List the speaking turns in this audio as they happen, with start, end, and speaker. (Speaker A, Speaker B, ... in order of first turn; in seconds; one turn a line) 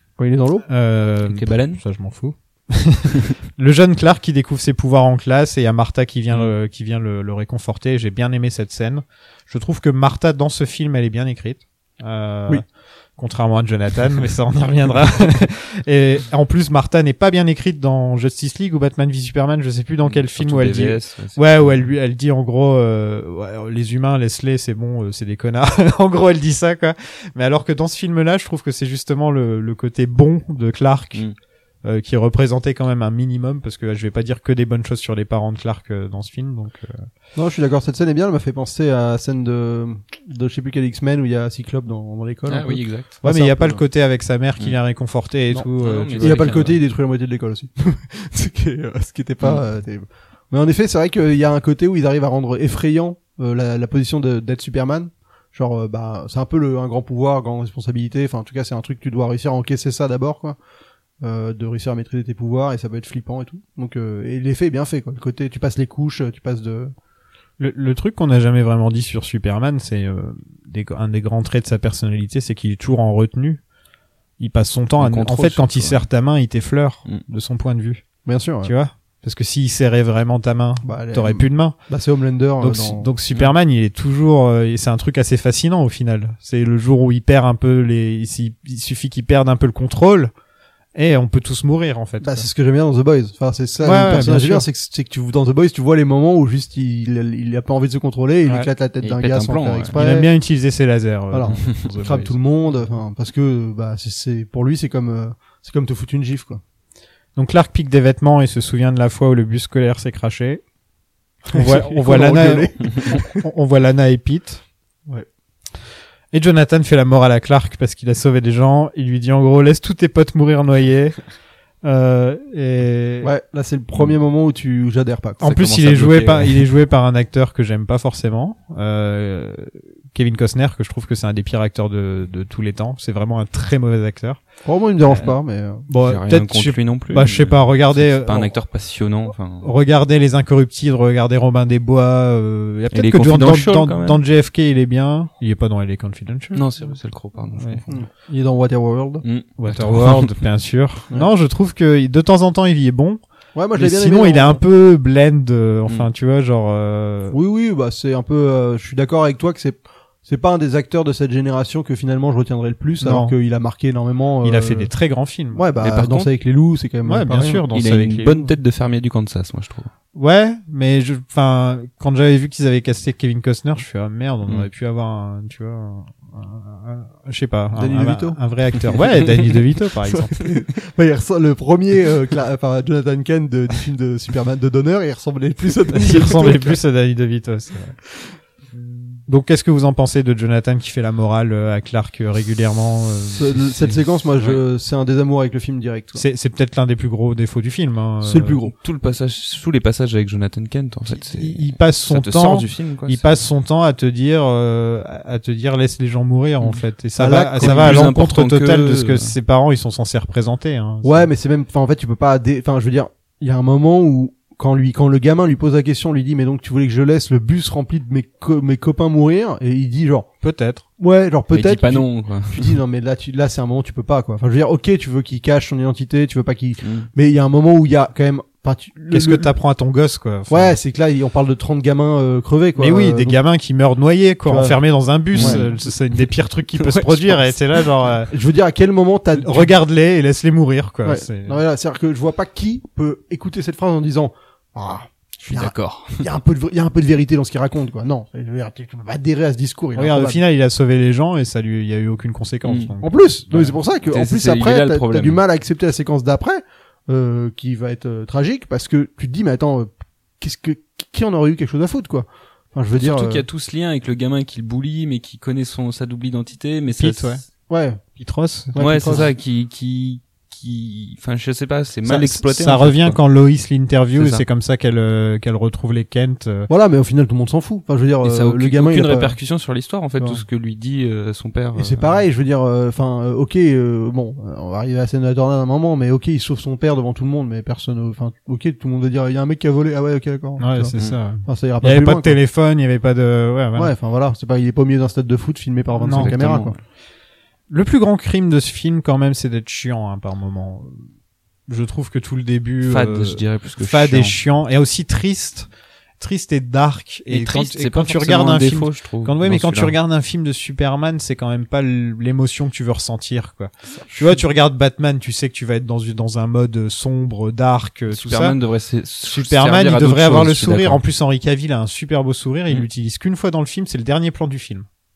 Speaker A: 0.2-0.6
Speaker B: 0.7-31.3
Speaker C: 1.3-1.8
Speaker C: 20.1-21.9
Speaker B: 31.8-37.1
Speaker A: 37.4-43.8
Speaker C: 42.5-43.1
Speaker B: 43.2-46.8
Speaker A: 45.5-60.6
Speaker C: 45.8-46.8
Speaker A: 61.2-66.9
Speaker B: 67.6-73.6
Speaker B: 74.4-78.0
Speaker C: 75.0-76.0
Speaker A: 78.2-78.7
Speaker B: 78.6-81.8
Speaker A: 80.8-83.1
Speaker B: 82.6-90.3
Speaker B: 91.0-92.5
Speaker A: 92.2-100.3
Speaker B: 93.8-94.6
Speaker C: 99.0-100.0
Speaker B: 99.9-102.4
Speaker A: 101.3-106.6
Speaker C: 101.5-101.9
Speaker B: 107.4-110.6
Speaker B: 111.5-114.6
Speaker A: 111.5-113.5
Speaker B: 116.3-121.2
Speaker B: 121.8-123.3
Speaker A: 123.2-125.5
Speaker B: 125.4-134.4
Speaker C: 125.4-126.6
Speaker A: 134.6-135.9
Speaker B: 135.9-138.5
Speaker C: 136.0-139.7
Speaker B: 139.6-146.6
Speaker C: 142.9-144.2
Speaker C: 146.5-148.0
Speaker A: 147.9-149.2
Speaker C: 149.2-150.3
Speaker B: 149.6-153.2
Speaker A: 153.6-154.6
Speaker B: 153.7-157.4
Speaker A: 157.3-164.9
Speaker B: 163.0-163.3
Speaker B: 164.4-165.6
Speaker A: 165.5-167.7
Speaker C: 165.8-166.3
Speaker B: 167.1-168.5
Speaker C: 167.7-169.9
Speaker B: 170.1-180.3
Speaker A: 177.7-178.4
Speaker A: 180.0-186.8
Speaker B: 185.9-188.0
Speaker B: 189.3-193.7
Speaker A: 193.3-196.2
Speaker B: 196.2-198.6
Speaker A: 198.2-198.7
Speaker C: 198.8-203.4
Speaker B: 201.1-211.3
Speaker A: 207.2-208.1
Speaker C: 207.6-209.3
Speaker A: 211.0-220.3
Speaker B: 220.4-220.8
Speaker A: 221.0-229.5
Speaker C: 221.5-222.8
Speaker C: 226.8-227.1
Speaker B: 229.1-230.8
Speaker A: 230.5-233.4
Speaker B: 232.8-238.3
Speaker A: 234.4-234.8
Speaker C: 235.3-235.7
Speaker A: 235.3-235.6
Speaker A: 236.9-237.4
Speaker A: 238.3-239.7
Speaker B: 239.3-241.6
Speaker A: 241.1-250.4
Speaker C: 245.4-246.3
Speaker B: 249.9-253.1
Speaker C: 252.6-252.9
Speaker A: 253.0-263.4
Speaker C: 253.5-255.4
Speaker C: 262.9-267.4
Speaker B: 267.0-267.4
Speaker A: 267.7-268.0
Speaker B: 268.2-269.3
Speaker A: 268.7-269.3
Speaker C: 268.8-273.2
Speaker B: 272.1-276.7
Speaker C: 274.1-274.4
Speaker A: 276.7-279.4
Speaker C: 278.2-282.1
Speaker A: 281.8-292.4
Speaker B: 290.6-293.9
Speaker A: 293.8-296.7
Speaker B: 296.0-296.3
Speaker C: 296.1-296.8
Speaker B: 297.7-301.1
Speaker B: 301.7-305.7
Speaker C: 302.8-304.3
Speaker B: 306.2-318.6
Speaker C: 307.3-309.9
Speaker C: 318.1-321.0
Speaker B: 319.2-324.9